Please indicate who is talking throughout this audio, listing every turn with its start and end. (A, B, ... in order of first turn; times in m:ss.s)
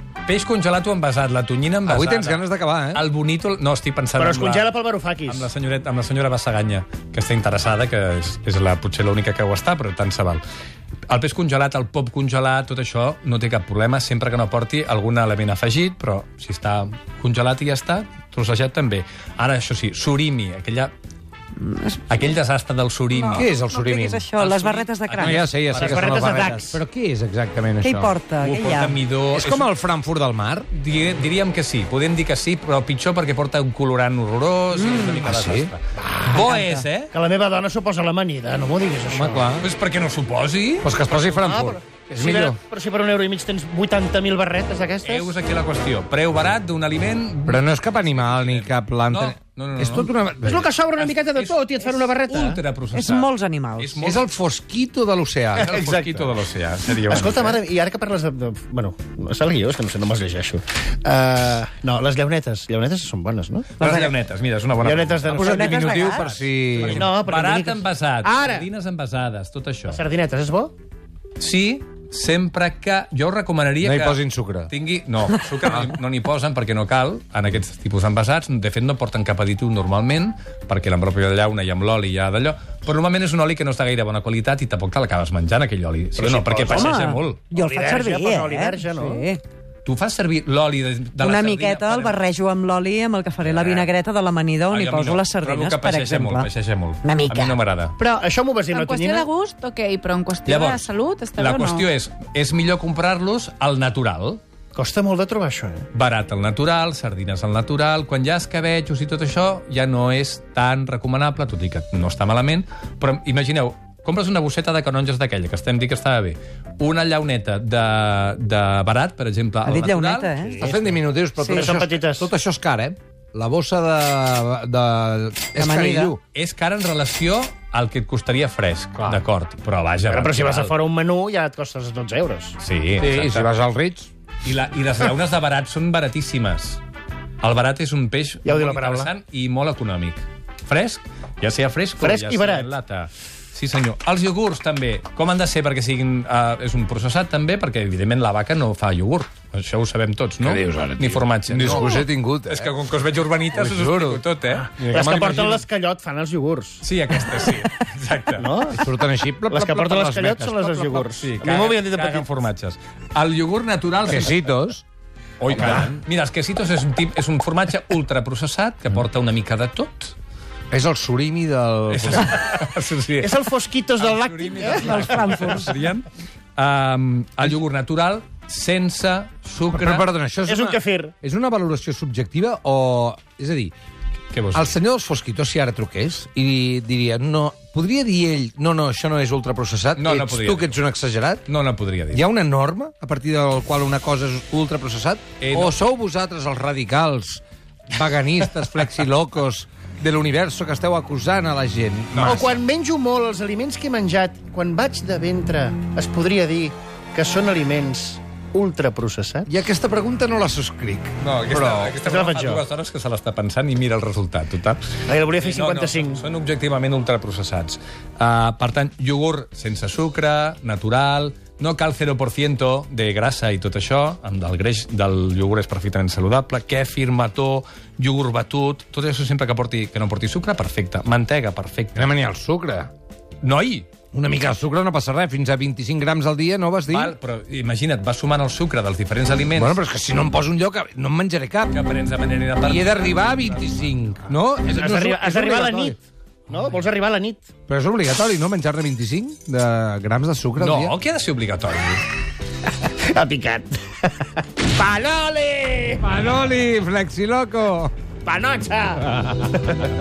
0:00.2-0:04.7 A
0:01.9-0:03.0 B
0:04.2-0:05.5 C
0:05.3-0:10.4 A
0:11.1-0:20.9 A
0:21.6-0:22.3 D
0:22.1-0:23.5 A
0:23.1-0:25.5 D
0:23.3-0:24.2 B
0:24.4-0:26.5 A
0:25.2-0:28.2 B
0:25.7-0:26.8 C
0:27.8-0:29.0 D
0:28.4-0:29.7 A
0:29.3-0:30.7 B
0:30.7-0:37.1 A
0:34.7-0:35.3 D
0:35.2-0:36.5 B
0:37.1-0:39.5 C
0:39.1-0:39.7 B
0:39.6-0:41.0 A
0:40.8-0:42.6 B
0:41.2-0:45.3 C
0:45.0-0:50.1 A
0:47.5-0:50.7 B
0:50.4-0:52.6 C
0:51.0-0:54.2 A
0:52.9-0:54.0 D
0:54.0-0:55.8 B
0:55.5-0:57.6 A
0:55.6-0:56.4 C
0:57.1-1:03.7 C
1:03.8-1:10.0 A
1:03.8-1:04.1 D
1:04.8-1:05.8 C
1:05.3-1:07.1 B
1:05.4-1:06.2 D
1:06.8-1:08.7 C
1:09.9-1:10.7 C
1:11.4-1:27.5 A
1:13.8-1:14.7 B
1:26.2-1:27.0 C
1:26.7-1:29.4 D
1:27.5-1:29.3 C
1:29.8-1:32.2 A
1:31.2-1:36.5 D
1:33.4-1:33.9 A
1:34.7-1:38.0 A
1:37.0-1:37.6 D
1:38.0-1:41.9 E
1:38.2-1:39.3 C
1:40.5-1:44.4 A
1:44.7-1:45.9 C
1:45.9-2:00.4 A
1:59.6-2:00.6 D
2:00.5-2:02.3 C
2:00.6-2:06.2 B
2:01.4-2:01.8 D
2:05.6-2:06.2 D
2:06.3-2:10.7 A
2:10.1-2:12.6 C
2:12.6-2:13.5 A
2:13.0-2:14.1 B
2:14.4-2:16.8 A
2:17.4-2:34.7 A
2:18.4-2:19.1 C
2:22.0-2:22.7 C
2:30.4-2:32.7 B
2:33.5-2:34.2 B
2:34.8-2:35.6 B
2:34.8-2:37.5 C
2:36.8-2:38.6 A
2:38.4-2:42.3 C
2:38.7-2:41.1 B
2:41.2-2:44.5 A
2:44.1-2:44.8 B
2:45.4-2:50.2 A
2:45.5-2:46.0 B
2:50.7-2:52.4 B
2:51.9-2:53.4 A
2:53.2-2:55.6 C
2:54.0-3:00.1 A
2:54.6-2:55.8 D
2:59.6-3:03.8 B
3:00.4-3:01.1 C
3:04.3-3:04.8 A
3:04.5-3:11.5 B
3:10.0-3:10.8 A
3:11.5-3:12.3 A
3:12.1-3:22.6 B
3:15.4-3:15.8 A
3:22.1-3:22.5 A
3:22.2-3:29.5 C
3:29.5-3:32.0 B
3:31.2-3:52.1 A
3:32.0-3:32.6 C
3:35.1-3:36.2 C
3:52.0-3:52.9 B
3:53.4-3:53.9 A
3:54.1-3:57.2 B
3:56.9-3:59.8 A
3:59.6-4:01.8 B
4:01.7-4:04.3 A
4:02.6-4:06.0 B
4:04.7-4:06.0 C
4:06.5-4:07.5 C
4:07.7-4:11.0 B
4:10.6-4:12.0 A
4:12.7-4:16.1 C
4:16.0-4:17.9 B
4:18.2-4:19.7 C